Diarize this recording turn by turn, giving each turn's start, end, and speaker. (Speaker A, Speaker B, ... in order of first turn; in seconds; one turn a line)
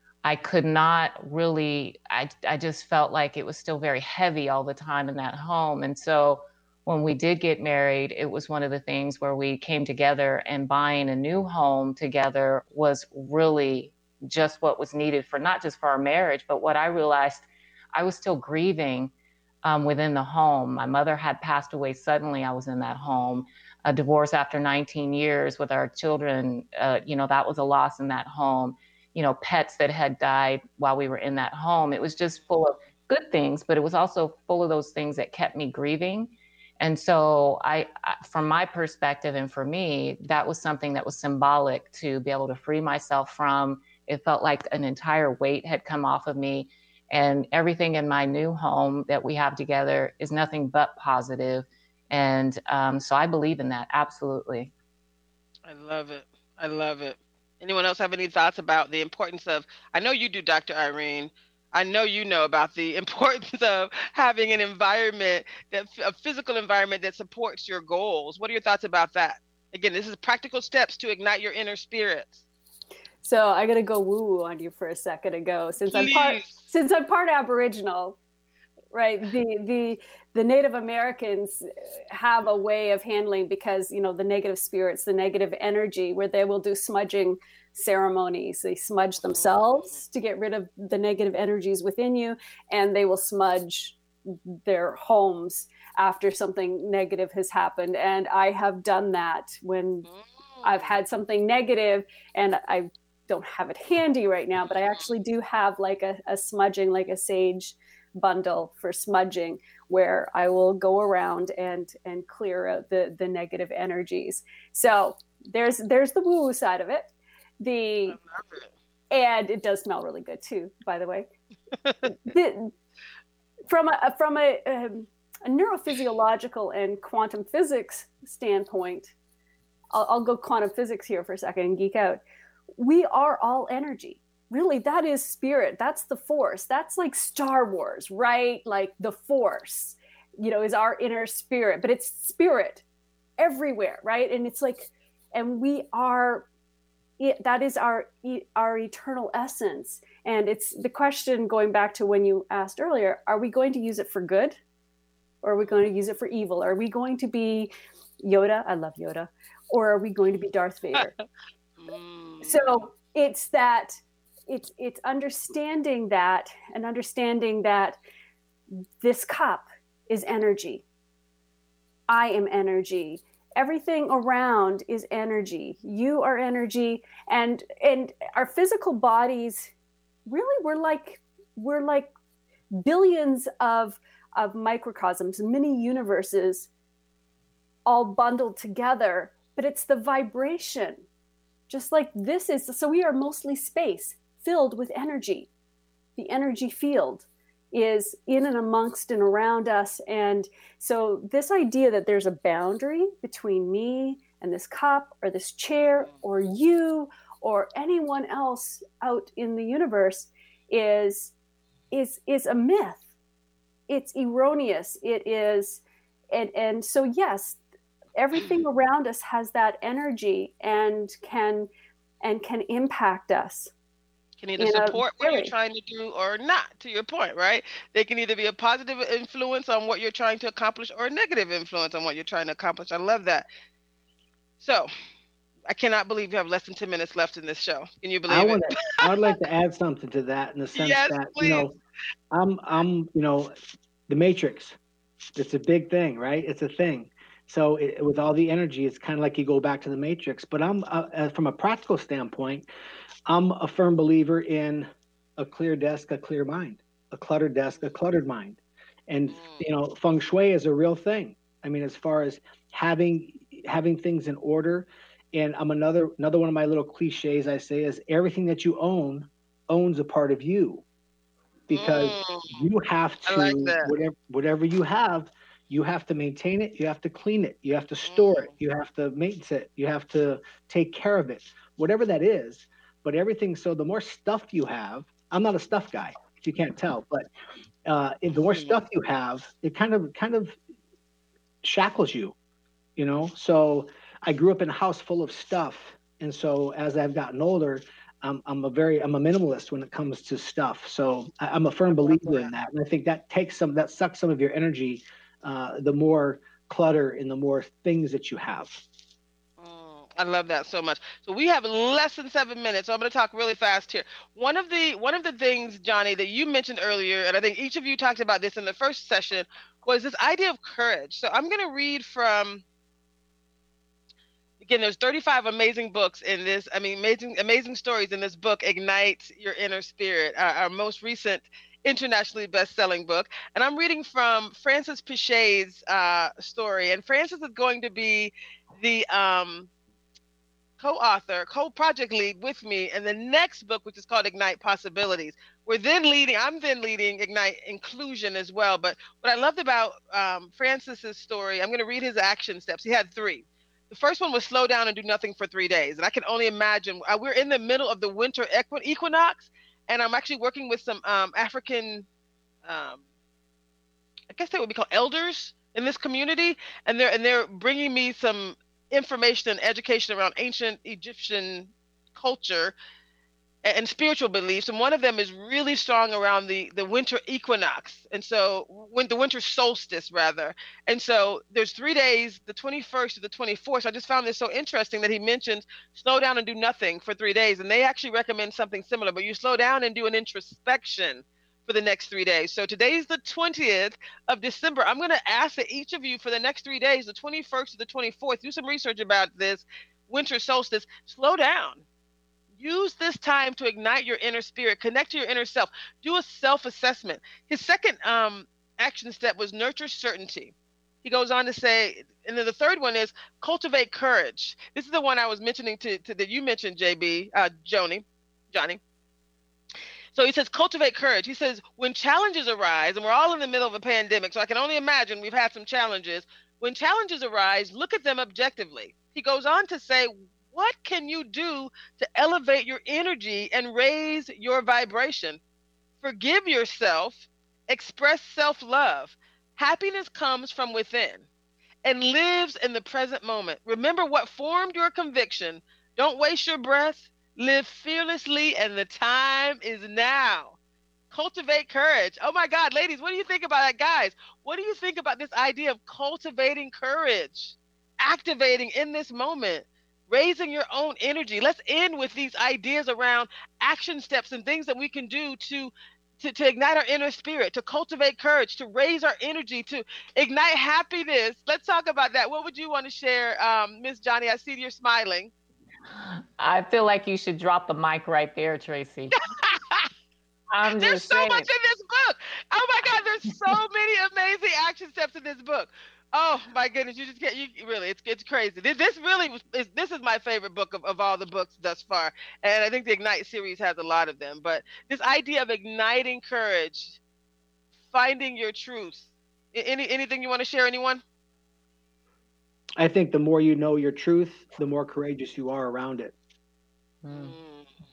Speaker A: 0.2-19.1
Speaker A: 19.6-54.7
Speaker B: 55.7-72.4
Speaker C: 73.2-78.2
Speaker B: 75.9-76.5
Speaker C: 78.9-100.0
Speaker B: 89.2-90.0
Speaker B: 100.0-100.9
Speaker C: 100.6-117.1
Speaker C: 117.6-118.2
Speaker B: 118.1-118.7
Speaker C: 119.1-121.3
Speaker B: 121.8-122.1
Speaker C: 122.0-122.7
Speaker C: 123.7-129.1
Speaker C: 129.9-132.2
Speaker C: 132.8-142.8
Speaker C: 143.4-146.5
Speaker C: 147.2-154.6
Speaker C: 155.4-161.1
Speaker B: 161.8-162.8
Speaker C: 162.4-163.9
Speaker C: 164.5-168.0
Speaker C: 169.0-170.8
Speaker C: 172.1-179.7
Speaker C: 180.2-182.1
Speaker C: 182.7-186.7
Speaker C: 187.9-191.1
Speaker C: 191.7-195.5
Speaker C: 196.2-211.3
Speaker C: 211.9-213.0
Speaker C: 213.9-217.6
Speaker C: 218.2-221.7
Speaker C: 222.2-223.7
Speaker B: 224.4-233.5
Speaker C: 224.6-225.5
Speaker B: 234.6-234.9
Speaker B: 235.7-239.3
Speaker D: 238.3-241.7
Speaker B: 240.7-241.7
Speaker D: 242.3-243.5
Speaker D: 244.1-244.8
Speaker D: 245.3-252.7
Speaker D: 253.3-270.8
Speaker B: 259.3-259.6
Speaker D: 271.7-287.2
Speaker B: 271.7-272.6
Speaker B: 273.3-273.9
Speaker B: 278.1-278.5
Speaker D: 287.8-290.6
Speaker D: 291.6-292.4
Speaker D: 293.0-308.8
Speaker B: 302.0-302.5
Speaker B: 309.6-322.6
Speaker B: 324.6-339.7
Speaker B: 340.8-362.1
Speaker B: 362.6-363.0
Speaker B: 364.3-372.8
Speaker B: 373.6-401.8
Speaker B: 402.6-418.8
Speaker B: 420.1-435.4
Speaker B: 436.0-441.2
Speaker B: 441.8-450.6
Speaker B: 451.1-475.3
Speaker A: 476.0-479.1
Speaker B: 479.2-479.9
Speaker A: 480.5-481.5
Speaker B: 480.7-497.0
Speaker B: 497.9-501.0
Speaker D: 502.8-506.1
Speaker A: 507.0-507.4
Speaker B: 507.1-507.7